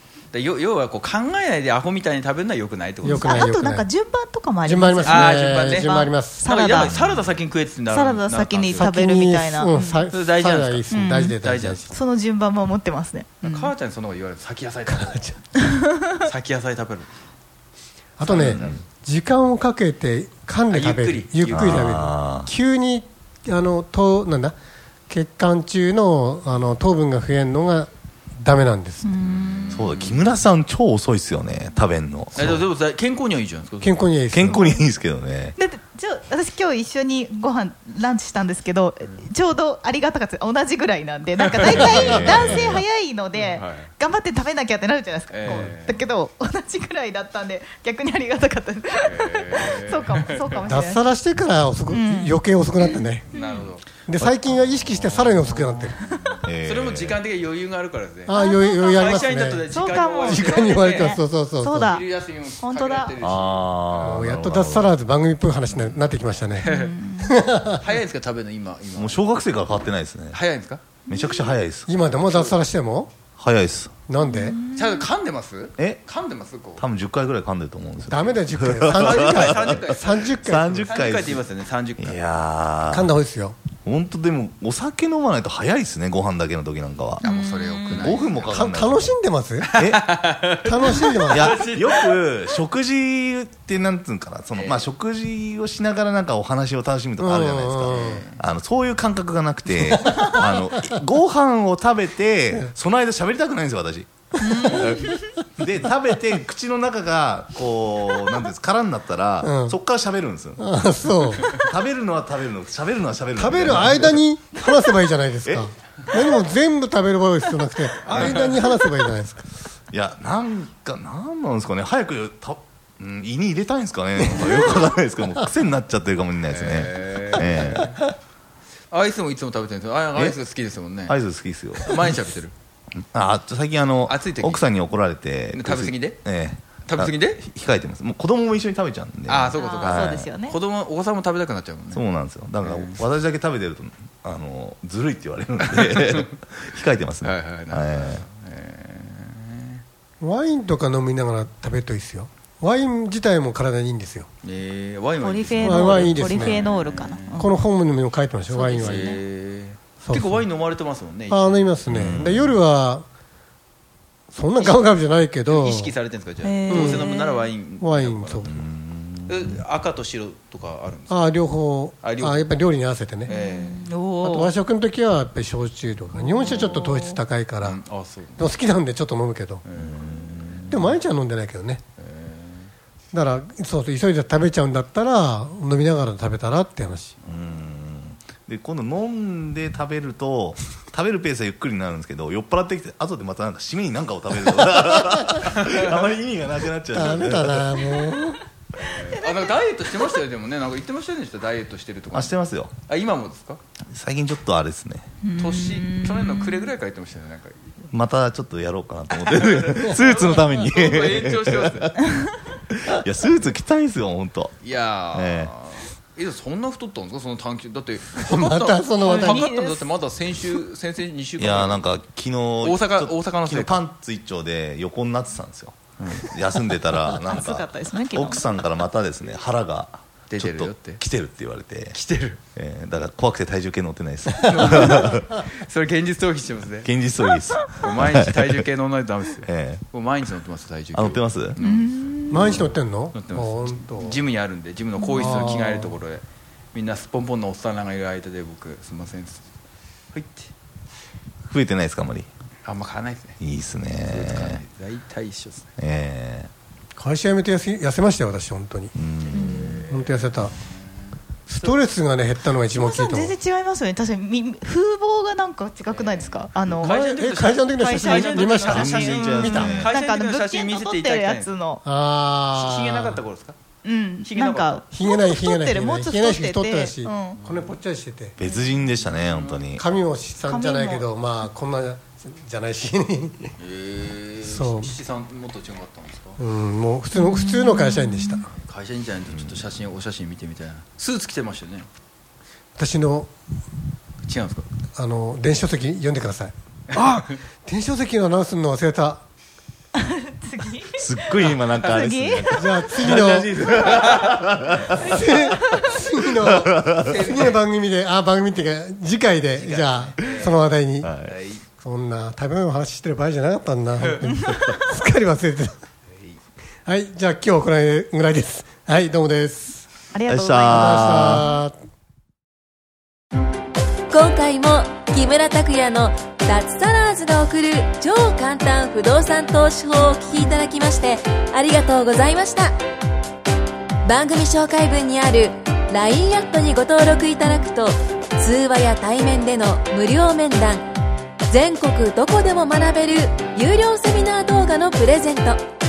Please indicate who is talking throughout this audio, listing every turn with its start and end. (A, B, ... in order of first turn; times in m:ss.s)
0:00.3-0:03.5 A
0:03.0-0:03.9 B
0:03.1-0:06.9 C
0:04.6-0:06.4 B
0:05.0-0:08.9 A
0:06.8-0:07.1 D
0:07.9-0:10.1 C
0:08.8-0:11.9 B
0:10.1-0:12.0 A
0:10.9-0:11.4 C
0:11.9-0:13.7 C
0:13.4-0:15.4 A
0:14.9-0:15.4 B
0:15.6-0:15.9 C
0:16.2-0:17.1 A
0:18.2-0:24.6 B
0:18.2-0:18.8 A
0:18.3-0:18.8 D
0:20.7-0:22.0 A
0:21.5-0:22.5 D
0:25.1-0:29.2 B
0:29.0-0:29.9 C
0:29.3-0:30.4 A
0:29.7-0:32.6 D
0:32.4-0:34.0 A
0:33.8-0:34.7 B
0:34.3-0:35.6 D
0:35.6-0:51.0 C
0:41.4-0:42.6 A
0:41.7-0:42.8 D
0:42.1-0:42.4 B
0:43.4-0:43.9 A
0:45.3-0:46.0 A
0:45.5-0:45.7 B
0:49.1-0:50.6 A
0:50.7-0:53.3 B
0:51.9-0:53.7 C
0:53.3-0:53.9 A
0:54.1-0:56.0 B
0:54.2-0:54.6 D
0:54.8-1:01.2 A
0:56.4-0:57.2 D
0:58.3-0:59.7 B
0:58.3-1:02.1 C
1:00.3-1:02.0 B
1:01.9-1:03.8 A
1:02.6-1:03.1 C
1:03.2-1:05.0 D
1:04.0-1:07.8 B
1:05.7-1:06.1 D
1:06.6-1:07.4 C
1:06.6-1:07.0 A
1:07.7-1:09.3 A
1:09.0-1:10.4 D
1:10.3-1:11.0 A
1:11.1-1:11.9 D
1:11.9-1:13.1 B
1:12.1-1:12.6 A
1:13.4-1:13.9 D
1:14.1-1:14.6 B
1:14.2-1:15.0 C
1:14.7-1:16.8 A
1:15.8-1:16.0 D
1:16.8-1:19.8 D
1:18.1-1:21.0 B
1:18.9-1:22.2 A
1:20.4-1:21.4 D
1:22.0-1:23.1 D
1:22.9-1:23.6 B
1:23.8-1:27.2 D
1:27.2-1:28.2 C
1:27.2-1:28.5 A
1:28.0-1:29.2 D
1:28.5-1:29.7 B
1:29.7-1:32.2 A
1:29.8-1:30.1 D
1:30.6-1:31.6 B
1:31.3-1:50.7 D
1:34.5-1:34.9 A
1:37.2-1:38.2 B
1:37.9-1:38.4 A
1:39.9-1:40.5 B
1:44.4-1:45.2 C
1:49.4-1:49.8 B
1:50.6-1:51.6 B
1:51.5-1:54.2 D
1:53.4-1:59.5 B
1:58.0-1:58.8 A
1:58.1-1:58.5 D
1:59.9-2:08.0 D
2:04.4-2:04.8 B
2:06.5-2:08.0 A
2:08.9-2:11.2 A
2:11.1-2:12.0 D
2:11.7-2:12.5 A
2:13.0-2:20.3 D
2:14.1-2:14.7 A
2:15.5-2:16.2 A
2:16.8-2:17.4 A
2:19.3-2:22.0 A
2:19.6-2:20.6 C
2:21.9-2:28.2 D
2:22.6-2:23.1 A
2:25.6-2:26.2 A
2:27.2-2:29.8 A
2:30.2-2:34.3 B
2:34.4-2:37.5 A
2:35.2-2:37.5 C
2:35.6-2:36.7 B
2:37.4-2:39.2 B
2:38.5-2:39.2 C
2:38.8-2:41.8 A
2:40.0-2:40.5 B
2:41.3-2:43.0 B
2:41.9-2:42.6 D
2:44.3-2:46.0 B
2:45.5-2:48.6 A
2:46.4-2:47.5 C
2:46.7-2:47.1 B
2:47.8-2:48.6 B
2:48.5-2:49.6 D
2:49.3-2:51.4 A
2:51.1-2:53.3 B
2:52.0-2:52.5 A
2:53.3-2:53.8 A
2:53.3-2:54.5 C
2:54.2-2:57.8 B
2:56.2-2:56.6 A
2:56.4-2:57.2 C
2:57.6-2:58.5 A
2:58.4-2:59.6 B
2:59.6-3:01.0 A
2:59.7-3:00.8 D
3:00.7-3:01.8 B
3:02.0-3:02.7 A
3:03.1-3:07.1 B
3:07.3-3:17.8 D
3:15.4-3:16.1 A
3:16.9-3:18.4 B
3:17.9-3:18.4 C
3:18.8-3:23.6 A
3:19.1-3:19.6 C
3:22.1-3:22.7 D
3:23.9-3:25.1 D
3:25.2-3:26.7 C
3:25.4-3:27.7 A
3:27.9-3:32.1 D
3:29.1-3:31.9 A
3:32.7-3:34.6 D
3:34.6-3:41.9 A
3:35.1-3:35.5 D
3:38.2-3:39.5 B
3:39.0-3:39.9 C
3:41.4-3:52.0 D
3:42.6-3:43.9 A
3:47.2-3:48.4 C
3:50.3-3:51.0 A
3:51.9-3:52.4 A
3:52.6-3:55.4 D
3:54.4-3:56.9 A
3:56.8-3:58.6 D
3:57.7-4:09.4 A
3:59.4-3:59.8 D
4:00.9-4:01.6 D
4:01.6-4:02.7 C
4:02.3-4:04.2 B
4:05.0-4:05.6 C
4:05.1-4:05.9 B
4:10.1-4:10.5 A
4:11.5-4:12.3 D
4:12.6-4:13.4 A
4:13.4-4:14.6 D
4:13.9-4:15.7 A
4:15.8-4:16.5 D
4:17.0-4:18.9 B
4:19.0-4:19.9 D
4:19.3-4:20.6 A
4:19.4-4:19.7 C
4:19.9-4:20.5 B
4:21.5-4:23.4 B
4:22.7-4:27.0 C
4:25.9-4:31.5 A
4:26.8-4:29.9 B
4:27.8-4:31.8 C
4:28.7-4:29.8 D
4:31.8-4:33.2 B
4:32.5-4:33.6 A
4:33.8-4:37.4 C
4:34.2-4:34.8 A
4:34.9-4:38.4 B
4:37.4-4:37.7 A
4:38.4-4:39.8 D
4:38.8-4:39.7 A
4:39.8-4:43.6 B
4:40.5-4:41.1 C
4:43.6-4:46.4 A
4:44.4-4:45.0 B
4:46.4-4:48.5 B
4:47.1-4:48.4 C
4:48.6-4:51.9 A
4:49.3-4:49.6 D
4:52.8-4:53.3 B
4:54.2-4:54.7 A
4:55.0-4:59.2 B
5:00.0-5:02.9 C
5:00.9-5:05.5 D
5:01.5-5:01.8 A
5:02.5-5:03.7 B
5:03.7-5:04.4 A
5:04.8-5:11.1 B
5:06.4-5:07.4 D
5:07.0-5:07.6 A
5:09.5-5:10.7 A
5:11.0-5:11.4 D
5:11.2-5:11.6 A
5:11.8-5:15.8 B
5:14.0-5:14.3 A
5:16.9-5:19.9 B
5:20.1-5:21.4 C
5:20.3-5:21.5 D
5:20.7-5:21.7 B
5:24.1-5:32.8 E
5:34.0-5:40.9 E
5:41.5-5:45.6 E